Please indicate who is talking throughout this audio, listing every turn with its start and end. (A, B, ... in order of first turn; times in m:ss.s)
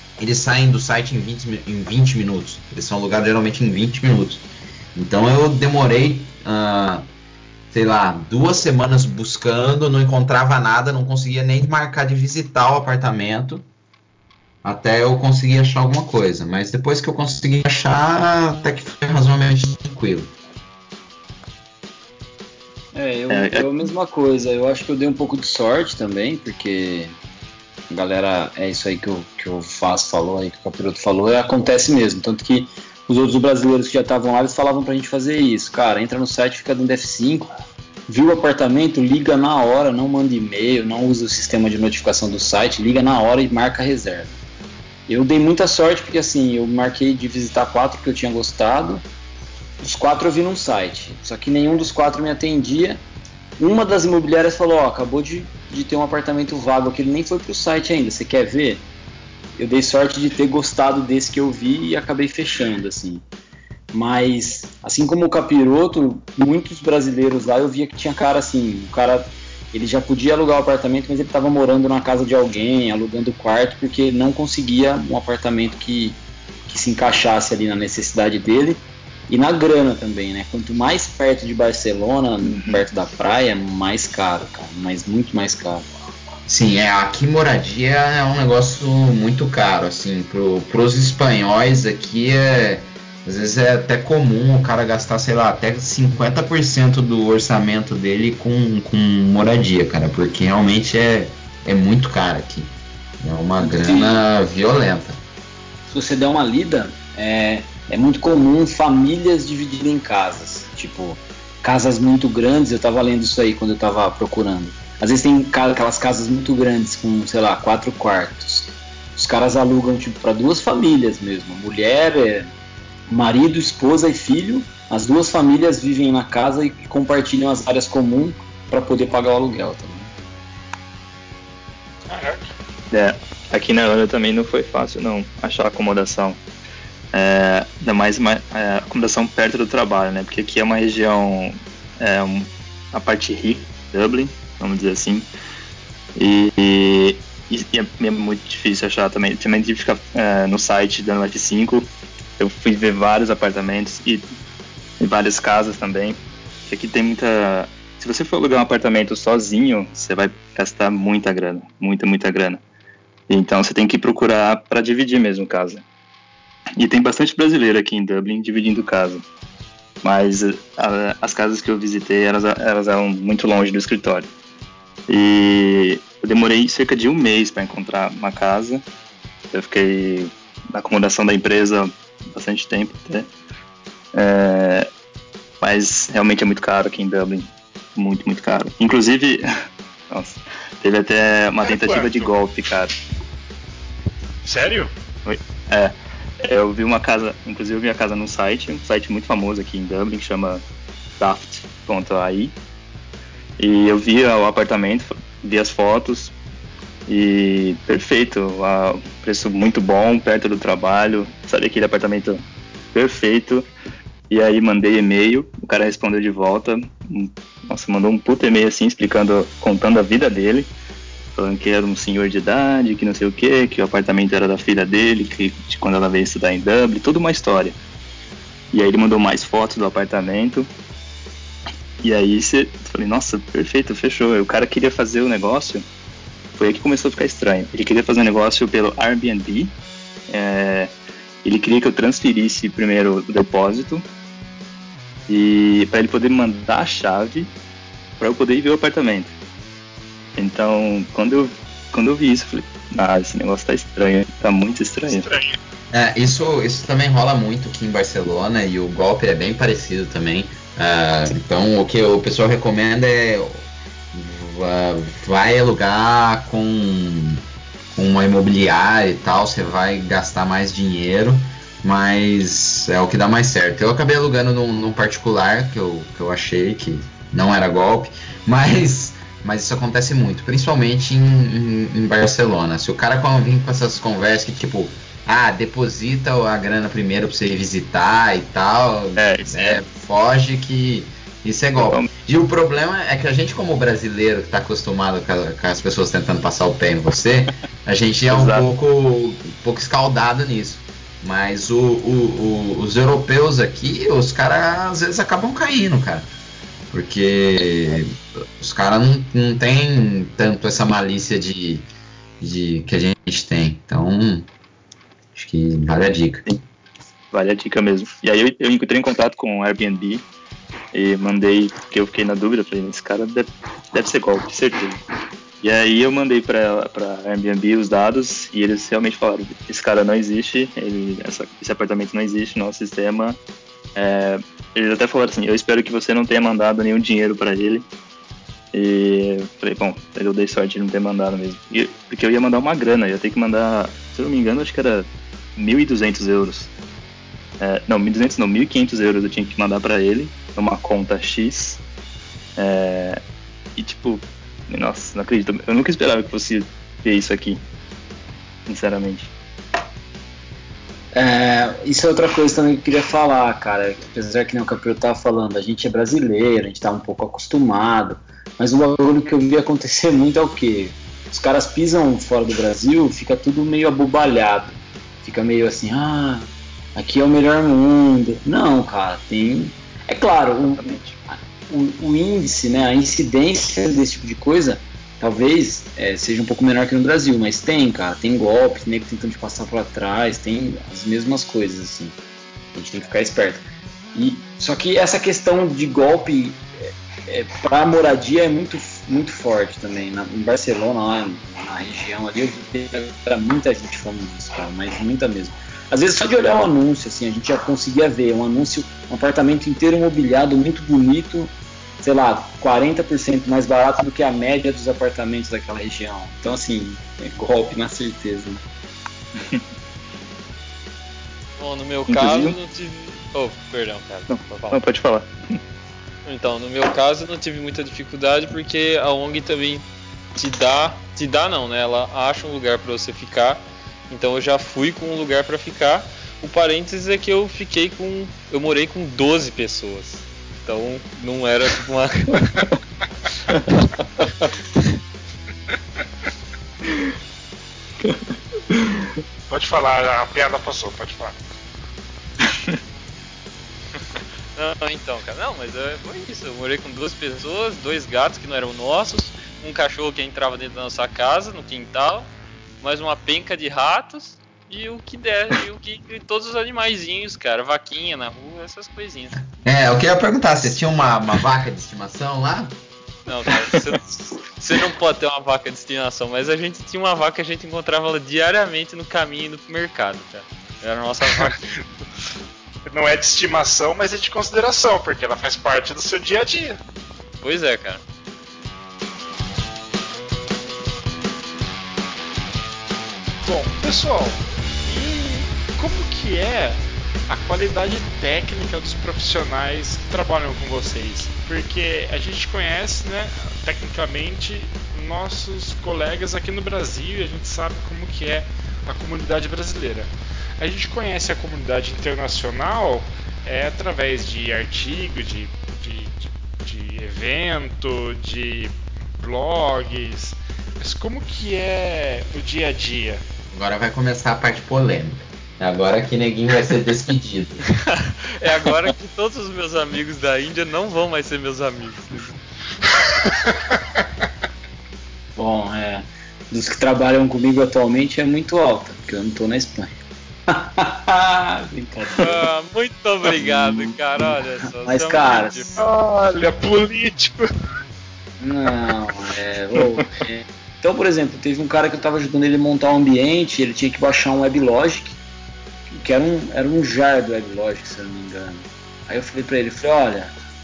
0:00.2-0:04.4 A
0:05.0-0:07.1 A
0:07.7-0:13.7 A
0:14.6-0:20.3 A
0:22.9-0:27.2 B
0:23.3-0:23.9 C
0:27.9-0:37.5 B
0:38.1-0:44.4 B
0:45.1-0:49.0 B
0:49.8-0:53.0 B
0:53.6-0:58.8 B
0:59.6-1:03.2 B
1:03.9-1:25.9 B
1:22.4-1:22.8 C
1:26.5-1:45.2 A
1:43.6-1:44.2 B
1:45.9-2:02.5 B
2:03.1-2:10.1 B
2:12.1-2:12.5 D
2:12.9-2:16.4 C
2:17.1-2:25.3 C
2:26.2-2:34.2 C
2:35.0-2:42.6 C
2:43.3-2:45.8 C
2:46.8-2:49.2 C
2:50.0-2:54.3 C
2:55.1-2:58.8 C
2:59.5-3:03.3 C
3:04.1-3:04.9 C
3:05.6-3:09.4 C
3:10.1-3:13.0 C
3:11.6-3:12.3 D
3:14.4-3:14.9 D
3:15.2-3:20.6 C
3:21.2-3:22.6 C
3:23.6-3:26.3 C
3:27.1-3:32.4 C
3:32.9-3:33.7 C
3:34.3-3:40.7 C
3:41.4-3:47.8 C
3:48.7-3:50.7 C
3:52.0-3:55.9 C
3:56.6-3:59.8 C
4:00.3-4:00.9 C
4:01.4-4:04.0 C
4:05.3-4:07.5 C
4:08.2-4:09.4 C
4:10.4-4:15.3 C
4:15.2-4:15.6 D
4:15.9-4:27.4 A
4:27.9-5:06.3 A
4:49.2-4:49.8 C
4:51.8-4:52.1 C
4:58.3-4:58.7 C
5:06.9-5:11.9 A
5:12.4-5:14.5 A
5:15.4-5:16.4 A
5:17.3-5:20.3 C
5:20.9-5:25.0 C
5:25.6-5:33.4 C
5:34.0-5:37.9 C
5:38.7-5:46.7 C
5:47.6-5:51.8 C
5:52.6-5:53.2 C
5:53.8-5:57.6 C
5:58.7-5:59.3 C
6:01.1-6:32.2 B
6:20.8-6:21.2 C
6:32.8-6:36.6 B
6:37.3-6:58.6 B
7:01.6-7:04.8 E
7:02.1-7:02.6 C
7:04.3-7:05.3 C
7:06.2-7:09.8 E
7:10.4-7:22.6 E
7:28.0-7:29.1 C
7:29.5-7:31.4 D
7:32.4-7:32.8 C
7:34.6-7:49.4 E
7:49.5-7:52.8 A
7:53.3-8:01.6 E
8:01.3-8:01.6 D
8:02.9-8:06.8 D
8:07.4-8:08.0 E
8:13.4-8:43.2 D
8:43.5-8:47.6 A
8:47.9-8:52.4 E
8:53.0-8:53.5 D
8:55.4-8:59.9 B
9:00.5-9:02.5 B
9:02.2-9:05.8 E
9:03.3-9:05.8 B
9:05.8-9:07.5 D
9:08.4-9:15.2 B
9:15.9-9:20.3 B